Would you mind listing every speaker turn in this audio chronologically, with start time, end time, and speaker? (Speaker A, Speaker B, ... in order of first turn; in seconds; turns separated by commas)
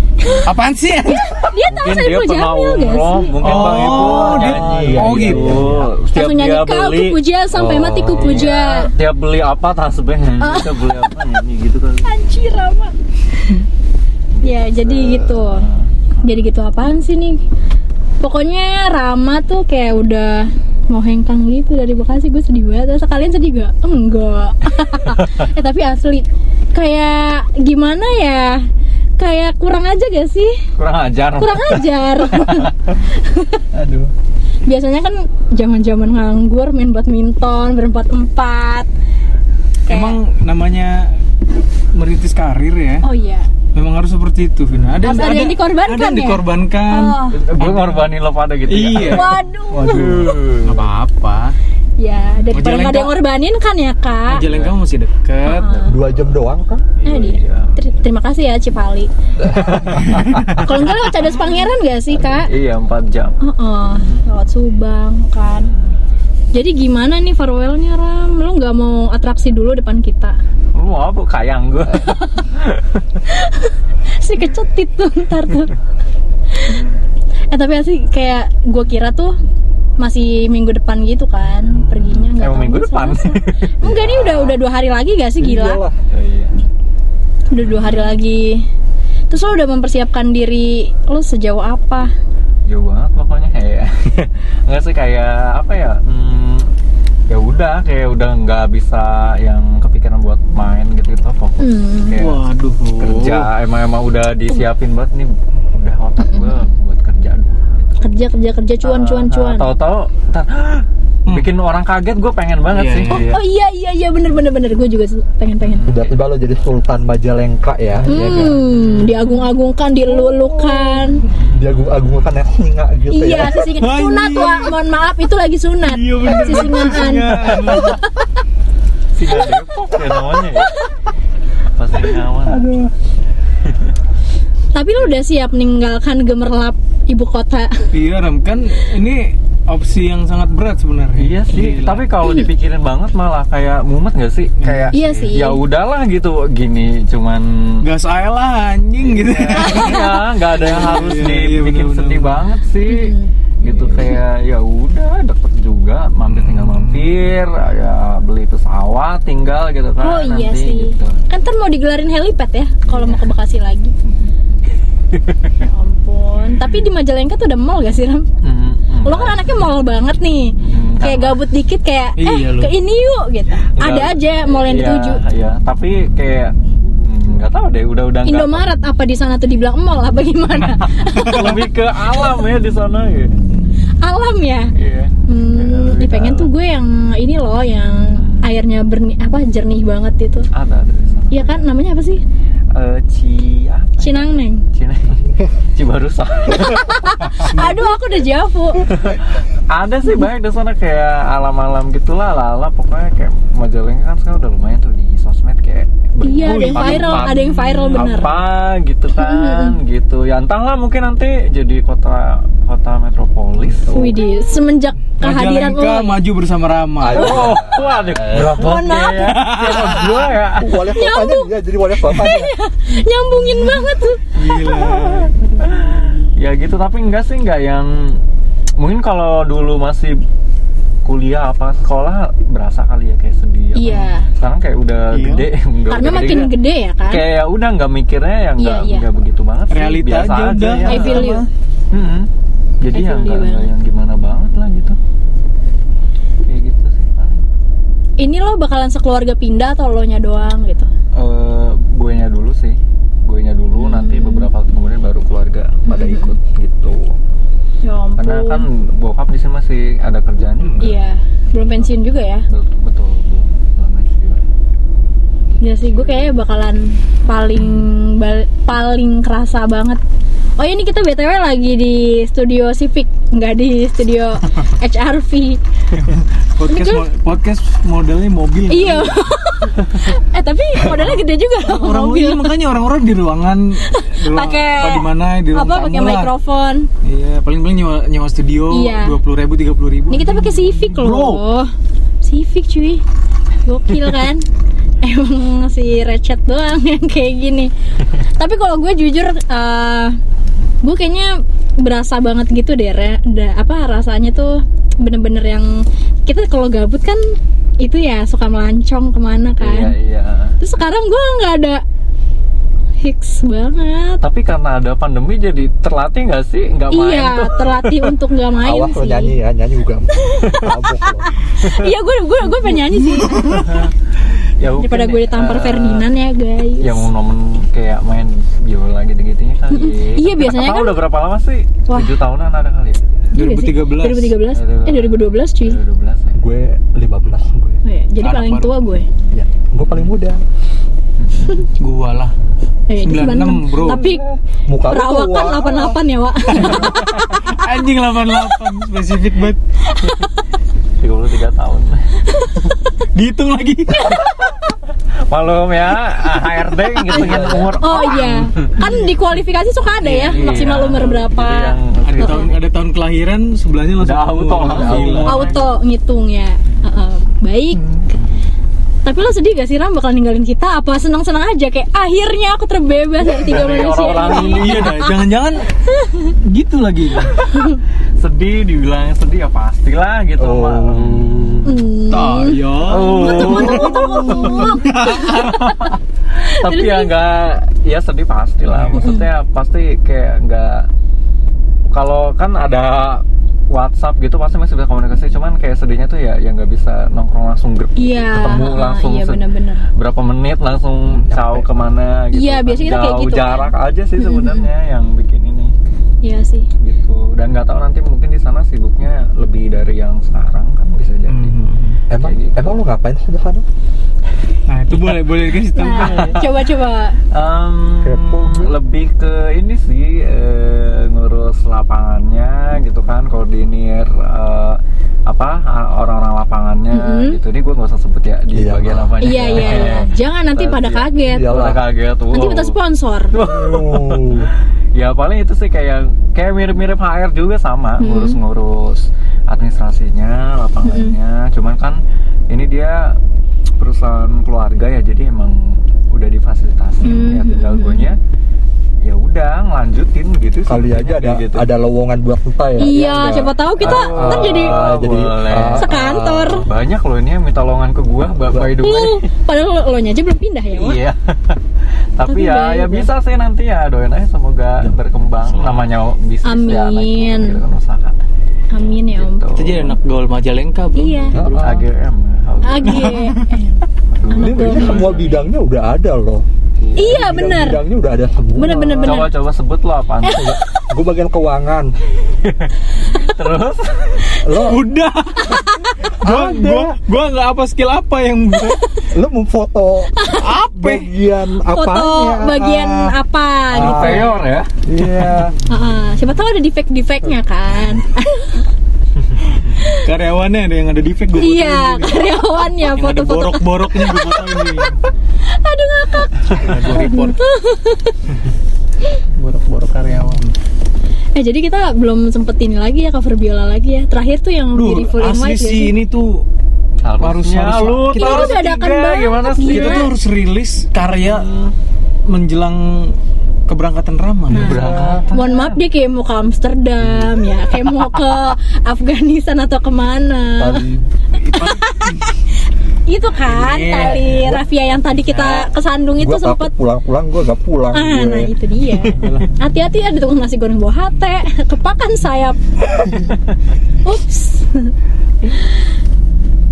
Speaker A: 0.4-1.4, Speaker B: 1.0-3.6, Speaker C: 1.7-12.1, Speaker A: 3.4-5.9, Speaker D: 3.5-5.9, Speaker B: 6.1-8.9, Speaker A: 8.2-8.4, Speaker B: 10.4-11.1, Speaker B: 12.0-12.9, Speaker C: 14.3-15.8, Speaker B: 14.4-15.7, Speaker B: 16.2-17.4, Speaker B: 18.2-28.7, Speaker B: 29.2-30.6, Speaker C: 30.8-32.7, Speaker B: 31.3-33.6, Speaker C: 33.8-34.1, Speaker B: 34.6-38.9, Speaker B: 39.9-40.2, Speaker A: 39.9-41.2, Speaker A: 41.9-43.1, Speaker B: 43.0-43.5, Speaker A: 43.7-48.1, Speaker C: 44.9-45.3, Speaker B: 45.0-47.4, Speaker C: 47.3-50.9, Speaker A: 48.7-51.6, Speaker B: 49.1-50.4, Speaker B: 52.0-54.4, Speaker A: 52.5-53.2, Speaker A: 54.3-55.9, Speaker C: 54.4-54.8, Speaker B: 55.4-56.0, Speaker D: 55.8-56.9, Speaker C: 57.0-57.8, Speaker B: 57.0-59.1, Speaker D: 59.4-60.5, Speaker C: 59.5-61.3, Speaker B: 60.6-62.5, Speaker C: 62.2-63.4, Speaker B: 63.4-65.7, Speaker B: 66.5-70.4, Speaker C: 70.7-73.0, Speaker B: 71.9-72.4, Speaker B: 73.2-75.7, Speaker B: 76.6-76.8, Speaker B: 77.5-79.4, Speaker B: 80.0-85.8, Speaker C: 82.0-84.5, Speaker D: 83.9-84.2, Speaker D: 85.4-86.0, Speaker C: 86.1-86.5, Speaker B: 87.5-88.7, Speaker C: 87.6-88.2, Speaker B: 89.3-92.1, Speaker C: 92.7-96.7, Speaker C: 97.3-102.4, Speaker B: 101.6-102.2, Speaker A: 102.2-103.5, Speaker C: 103.0-108.0, Speaker B: 106.2-106.7, Speaker B: 108.0-109.7, Speaker C: 108.8-113.4, Speaker A: 112.7-113.2, Speaker B: 113.1-115.9, Speaker C: 115.6-116.2, Speaker D: 115.8-118.6, Speaker B: 118.1-121.2, Speaker A: 118.2-119.0, Speaker D: 120.0-123.7, Speaker C: 121.4-122.2, Speaker B: 123.1-128.0, Speaker A: 123.6-124.8, Speaker A: 125.8-128.0, Speaker C: 129.1-130.8, Speaker C: 131.8-132.7, Speaker A: 132.4-132.9, Speaker B: 134.7-137.9, Speaker A: 137.9-142.1, Speaker C: 141.2-147.8, Speaker B: 142.2-142.5, Speaker A: 144.6-145.0, Speaker B: 144.9-145.6, Speaker A: 147.8-152.4, Speaker C: 149.0-161.2, Speaker B: 152.8-153.3, Speaker A: 153.6-154.2, Speaker A: 156.3-157.3, Speaker B: 160.0-163.9, Speaker C: 162.9-163.3, Speaker C: 164.0-164.3, Speaker C: 165.1-165.5, Speaker B: 165.6-168.3, Speaker C: 166.6-166.8, Speaker C: 168.4-169.6, Speaker B: 169.0-175.2, Speaker C: 170.6-171.4, Speaker A: 172.2-172.7, Speaker C: 173.8-178.6, Speaker B: 178.2-181.6, Speaker A: 181.1-181.6, Speaker C: 181.1-183.3, Speaker B: 184.0-184.7, Speaker C: 184.7-186.5, Speaker B: 185.3-190.5, Speaker C: 188.2-188.4, Speaker C: 190.5-191.7, Speaker B: 191.3-192.2, Speaker C: 192.7-195.2, Speaker B: 194.0-194.6, Speaker C: 195.7-197.3, Speaker B: 196.6-198.9, Speaker A: 197.4-197.9, Speaker C: 198.9-213.9, Speaker B: 206.2-208.3, Speaker A: 206.4-208.2, Speaker B: 209.2-209.8, Speaker D: 213.8-214.2, Speaker B: 213.9-216.2, Speaker A: 215.2-217.5, Speaker D: 217.0-218.6, Speaker C: 217.0-220.7, Speaker B: 217.2-217.6, Speaker B: 218.3-219.5, Speaker A: 219.1-220.1, Speaker D: 219.6-222.5, Speaker B: 220.8-224.6, Speaker A: 224.3-226.2, Speaker D: 224.7-225.3, Speaker C: 225.7-228.2, Speaker C: 228.8-230.2, Speaker C: 231.0-236.5, Speaker B: 233.7-234.3, Speaker A: 235.1-235.5, Speaker B: 235.9-237.2, Speaker C: 237.1-241.3, Speaker B: 238.6-239.1, Speaker A: 239.7-241.5, Speaker B: 240.8-241.5, Speaker C: 241.9-242.3, Speaker C: 242.8-245.0, Speaker B: 242.9-243.7, Speaker C: 246.4-247.4, Speaker B: 248.2-250.9, Speaker C: 251.1-257.1, Speaker B: 253.8-254.5, Speaker B: 255.8-256.4, Speaker B: 257.8-258.6, Speaker C: 258.2-261.0, Speaker B: 260.8-262.5, Speaker C: 261.6-261.9, Speaker C: 262.5-264.4, Speaker B: 265.6-270.0, Speaker B: 270.6-275.6, Speaker A: 276.0-279.2, Speaker B: 276.7-277.1, Speaker B: 278.7-282.6, Speaker A: 281.0-286.3, Speaker B: 283.9-286.9, Speaker A: 287.0-291.5, Speaker B: 288.7-289.2, Speaker B: 290.1-291.7, Speaker B: 292.2-293.0, Speaker B: 293.6-294.4, Speaker B: 295.0-300.2, Speaker B: 300.8-309.9, Speaker C: 309.6-310.6, Speaker B: 310.6-311.8, Speaker B: 313.0-314.2, Speaker C: 314.2-318.1, Speaker B: 316.9-319.4, Speaker D: 318.6-321.3, Speaker B: 320.1-320.7, Speaker B: 321.3-323.8, Speaker C: 321.6-321.9, Speaker A: 323.1-323.5, Speaker C: 323.4-326.1, Speaker B: 324.8-327.0, Speaker C: 326.8-333.0, Speaker B: 329.7-331.1, Speaker B: 331.9-332.1, Speaker A: 333.3-334.4, Speaker B: 333.4-335.8, Speaker C: 334.5-336.4, Speaker D: 336.3-337.8, Speaker B: 337.8-339.1, Speaker A: 338.2-338.7, Speaker D: 339.3-340.4, Speaker C: 341.2-341.6, Speaker A: 341.8-342.3, Speaker B: 342.9-344.2, Speaker A: 343.0-344.1, Speaker D: 343.9-346.0, Speaker B: 344.9-347.0, Speaker A: 346.5-349.6, Speaker B: 349.9-350.3, Speaker C: 351.0-352.0, Speaker B: 352.4-352.7, Speaker A: 353.1-354.2, Speaker C: 355.3-358.7, Speaker D: 357.1-357.8, Speaker B: 357.8-362.5, Speaker A: 358.8-359.1, Speaker A: 360.0-360.5, Speaker C: 360.0-362.6, Speaker A: 362.0-365.6, Speaker C: 364.0-365.6, Speaker D: 364.6-365.5, Speaker B: 365.2-367.9, Speaker B: 369.1-376.3, Speaker C: 373.4-375.1, Speaker A: 374.2-375.7, Speaker A: 376.3-377.4, Speaker B: 377.5-377.8, Speaker C: 378.2-381.7, Speaker D: 380.4-381.8, Speaker B: 381.6-385.9, Speaker A: 382.1-385.6, Speaker C: 382.8-390.9, Speaker B: 386.6-387.1, Speaker A: 388.7-389.1, Speaker B: 389.0-389.3, Speaker C: 391.9-399.4, Speaker B: 398.0-399.9, Speaker C: 399.9-405.7, Speaker D: 401.1-401.7, Speaker B: 402.3-404.7, Speaker B: 406.2-406.7, Speaker C: 406.8-411.6, Speaker A: 411.3-412.0, Speaker D: 412.1-413.6, Speaker C: 412.1-412.8, Speaker A: 414.6-416.4, Speaker B: 415.8-417.2, Speaker C: 415.9-416.4, Speaker C: 417.3-432.8, Speaker D: 418.0-418.7, Speaker B: 426.9-427.4, Speaker D: 428.5-430.0, Speaker B: 429.2-431.5, Speaker D: 431.2-431.8, Speaker B: 432.3-433.4, Speaker C: 433.3-443.2, Speaker D: 433.4-434.5, Speaker B: 438.0-438.4, Speaker B: 440.8-441.1, Speaker C: 443.8-448.2, Speaker B: 447.0-448.1, Speaker C: 449.0-451.6, Speaker D: 450.6-456.7, Speaker B: 452.8-454.8, Speaker C: 453.8-455.9, Speaker B: 455.8-456.6, Speaker C: 456.6-459.3, Speaker D: 458.4-458.8, Speaker B: 458.8-461.0, Speaker C: 460.8-461.6, Speaker C: 462.2-468.1, Speaker B: 462.2-463.1, Speaker A: 465.5-465.9, Speaker B: 466.4-467.6, Speaker B: 468.7-469.5, Speaker C: 468.8-470.0, Speaker A: 469.5-471.8, Speaker B: 471.0-471.4, Speaker D: 471.3-471.8, Speaker C: 471.5-473.2, Speaker B: 472.6-475.4, Speaker A: 472.9-473.4, Speaker C: 474.1-475.4, Speaker D: 474.4-479.3, Speaker C: 476.8-477.2, Speaker B: 477.0-477.8, Speaker B: 478.6-479.3, Speaker C: 479.0-480.5, Speaker B: 480.2-480.9, Speaker D: 480.3-481.9, Speaker C: 482.4-484.3, Speaker D: 484.4-484.9, Speaker A: 484.6-488.8, Speaker B: 485.4-485.9, Speaker D: 486.2-487.0, Speaker D: 489.1-490.1, Speaker B: 490.1-490.5, Speaker A: 490.4-491.1, Speaker D: 490.7-493.1, Speaker B: 491.7-494.4, Speaker D: 493.7-494.3, Speaker C: 493.7-494.7, Speaker D: 494.9-495.5, Speaker A: 495.0-495.5, Speaker B: 495.7-498.6, Speaker A: 499.8-505.0, Speaker B: 501.4-504.8, Speaker B: 505.5-508.2, Speaker C: 506.5-507.3, Speaker A: 506.6-507.4, Speaker A: 509.4-510.6, Speaker B: 511.4-516.0, Speaker A: 514.7-516.5, Speaker C: 517.0-520.1, Speaker A: 517.2-518.7, Speaker B: 518.1-520.1, Speaker A: 519.6-521.5, Speaker C: 521.1-521.7, Speaker A: 522.2-525.2, Speaker C: 524.5-525.8, Speaker D: 524.5-525.2, Speaker B: 525.3-530.8, Speaker D: 530.6-531.0, Speaker A: 531.4-532.3, Speaker B: 531.5-532.2, Speaker B: 533.1-536.7, Speaker A: 533.4-534.6, Speaker A: 535.3-535.6, Speaker D: 536.2-538.5, Speaker B: 537.9-542.6, Speaker A: 539.1-539.5, Speaker B: 544.0-544.9, Speaker B: 545.5-545.8